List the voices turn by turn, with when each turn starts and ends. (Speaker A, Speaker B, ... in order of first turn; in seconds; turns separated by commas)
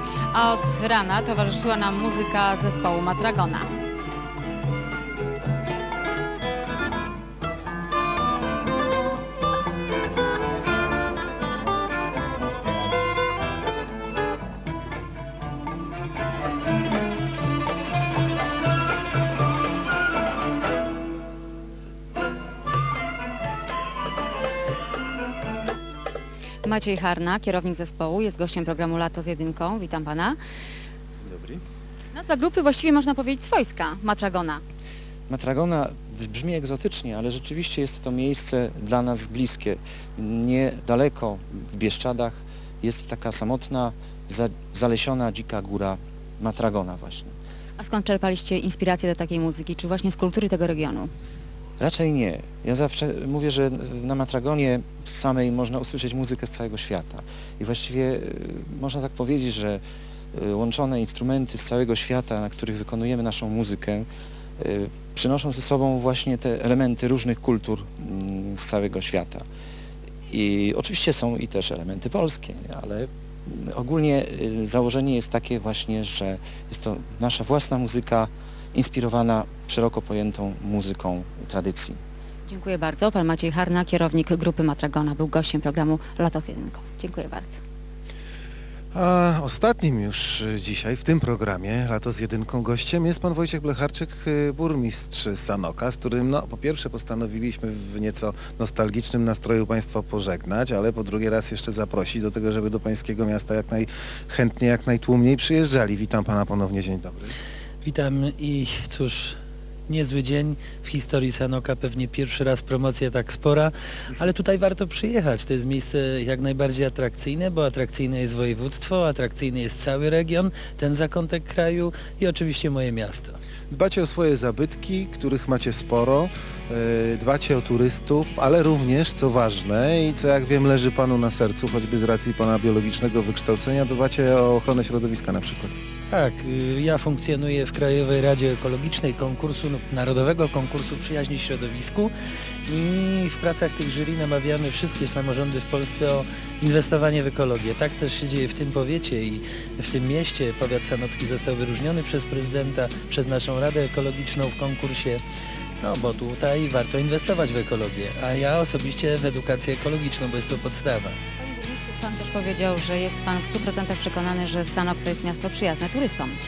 Speaker A: 0.3-3.7, Speaker A: 26.6-30.4, Speaker A: 32.1-34.6, Speaker B: 35.3-47.4, Speaker A: 47.8-51.1, Speaker B: 51.8-64.1, Speaker B: 64.6-69.5, Speaker B: 70.3-82.0, Speaker A: 82.5-87.6, Speaker C: 88.9-107.3, Speaker D: 107.8-123.4, Speaker C: 123.7-135.7, Speaker D: 136.1-142.1, Speaker D: 142.7-155.2, Speaker D: 155.8-161.2, Speaker A: 161.4-166.4